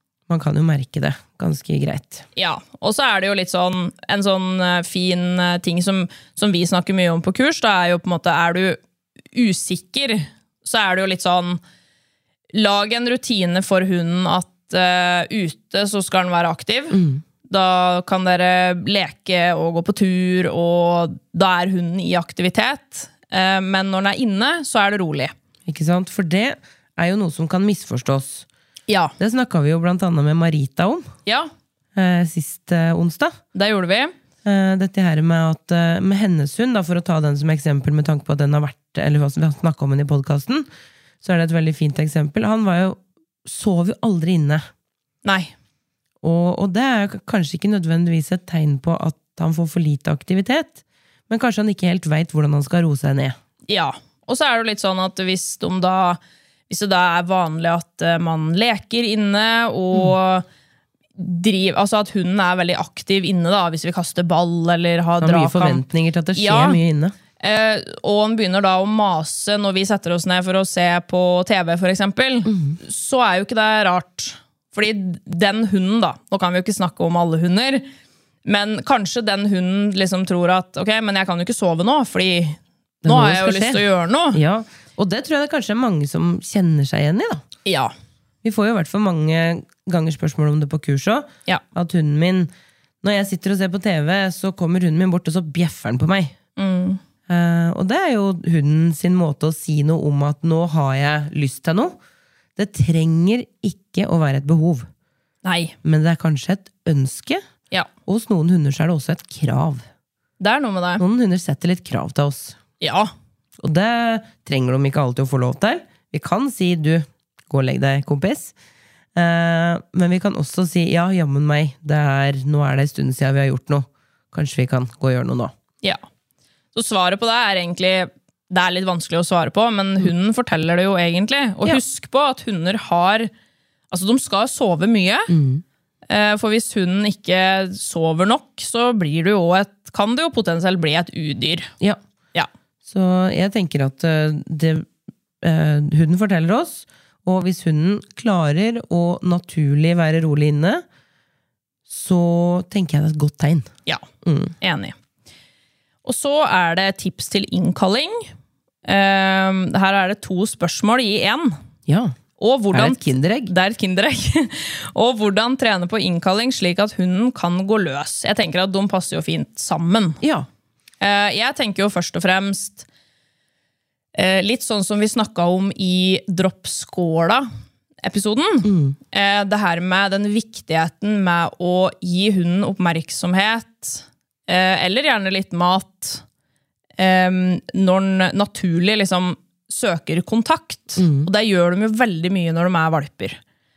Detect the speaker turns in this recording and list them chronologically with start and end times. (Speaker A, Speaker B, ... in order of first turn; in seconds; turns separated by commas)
Speaker A: 0.3-2.2, Speaker B: 2.4-8.8, Speaker B: 9.3-11.6, Speaker B: 12.5-25.3, Speaker A: 16.9-17.2, Speaker A: 25.7-28.5, Speaker B: 28.9-29.1, Speaker A: 29.2-31.1, Speaker A: 31.9-33.4, Speaker B: 33.5-34.1, Speaker A: 34.5-40.7, Speaker A: 41.2-44.7, Speaker B: 45.2-45.5, Speaker A: 46.2-53.4, Speaker B: 53.7-60.5, Speaker B: 61.2-65.8, Speaker A: 65.2-67.2, Speaker B: 66.3-66.8, Speaker B: 67.4-77.9, Speaker A: 72.5-72.8, Speaker B: 78.5-84.4, Speaker A: 83.0-87.4, Speaker B: 87.7-87.9, Speaker A: 88.4-96.3, Speaker B: 96.6-97.0, Speaker A: 97.3-102.0, Speaker A: 102.6-104.9, Speaker B: 105.4-105.8, Speaker A: 105.8-107.4, Speaker A: 108.1-109.8, Speaker B: 110.4-111.0, Speaker A: 111.0-112.6, Speaker B: 112.8-113.1, Speaker A: 113.6-118.5, Speaker A: 119.2-125.5, Speaker B: 126.7-133.3, Speaker B: 133.9-135.3, Speaker A: 135.3-135.6, Speaker B: 136.1-141.7, Speaker A: 142.9-144.9, Speaker A: 145.4-150.8, Speaker A: 151.9-153.7, Speaker A: 154.2-154.6, Speaker B: 154.6-155.0, Speaker B: 156.1-158.3, Speaker B: 158.8-161.6, Speaker A: 161.9-162.2, Speaker B: 162.4-170.2, Speaker A: 162.7-163.5, Speaker A: 170.2-170.5, Speaker B: 171.0-172.9, Speaker B: 174.2-177.5, Speaker B: 178.0-186.2, Speaker A: 178.7-179.0, Speaker B: 187.0-193.4, Speaker A: 191.0-191.3